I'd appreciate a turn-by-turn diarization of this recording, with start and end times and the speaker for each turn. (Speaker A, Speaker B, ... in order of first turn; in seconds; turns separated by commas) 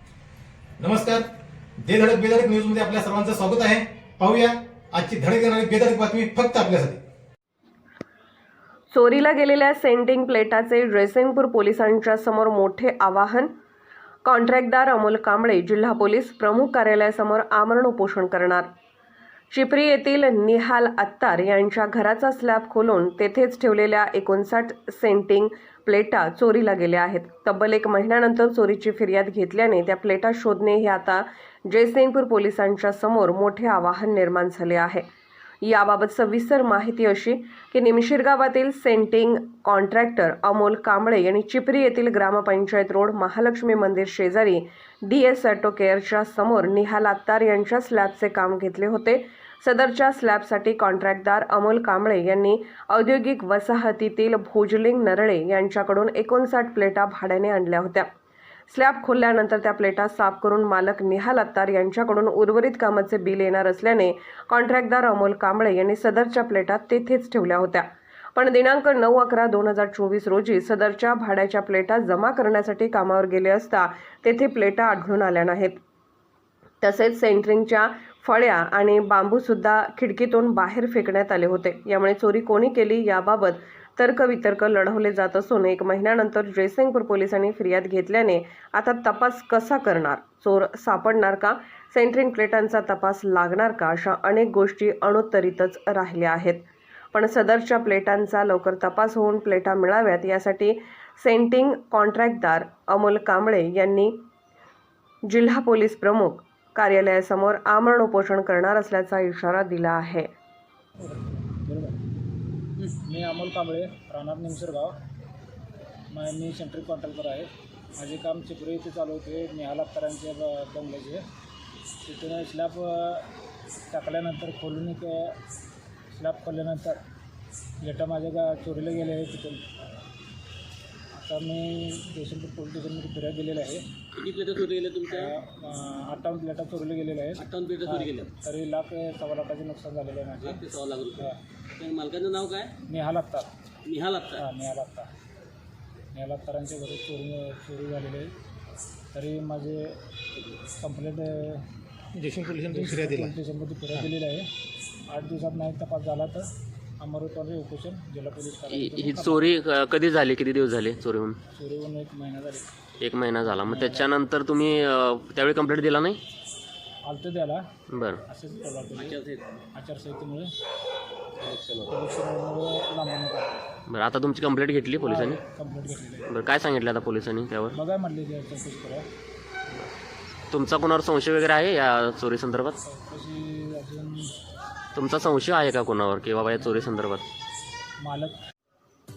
Speaker A: 0.8-1.2, Speaker A: 1.9-7.0, Speaker B: 8.9-13.5, Speaker B: 14.2-18.7, Speaker B: 19.5-35.0, Speaker B: 35.6-58.1, Speaker B: 58.7-75.8, Speaker B: 76.8-104.2, Speaker B: 105.3-110.3, Speaker C: 111.0-112.0, Speaker C: 113.0-115.0, Speaker C: 116.1-121.2, Speaker C: 122.0-123.3, Speaker C: 123.9-125.4, Speaker C: 126.1-127.0, Speaker C: 127.8-129.7, Speaker C: 131.1-133.8, Speaker D: 134.2-135.3, Speaker C: 135.1-140.6, Speaker D: 137.4-138.3, Speaker D: 140.4-142.7, Speaker C: 142.9-143.5, Speaker D: 143.8-144.4, Speaker C: 144.4-145.1, Speaker C: 146.1-148.3, Speaker C: 149.1-150.0, Speaker C: 150.7-151.7, Speaker A: 152.2-153.3, Speaker C: 152.7-154.5, Speaker C: 155.1-159.5, Speaker E: 158.7-161.4, Speaker C: 161.5-162.7, Speaker E: 163.0-166.2, Speaker C: 163.7-164.1, Speaker C: 167.1-167.7, Speaker E: 167.9-168.2, Speaker C: 168.3-169.2, Speaker D: 168.9-169.7, Speaker C: 169.7-170.5, Speaker D: 171.4-171.9, Speaker C: 171.9-173.8, Speaker E: 173.9-175.4, Speaker C: 175.0-176.4, Speaker E: 176.3-177.8, Speaker C: 177.7-179.1, Speaker E: 180.5-182.8, Speaker C: 182.8-184.3, Speaker E: 184.9-187.2, Speaker C: 188.0-188.4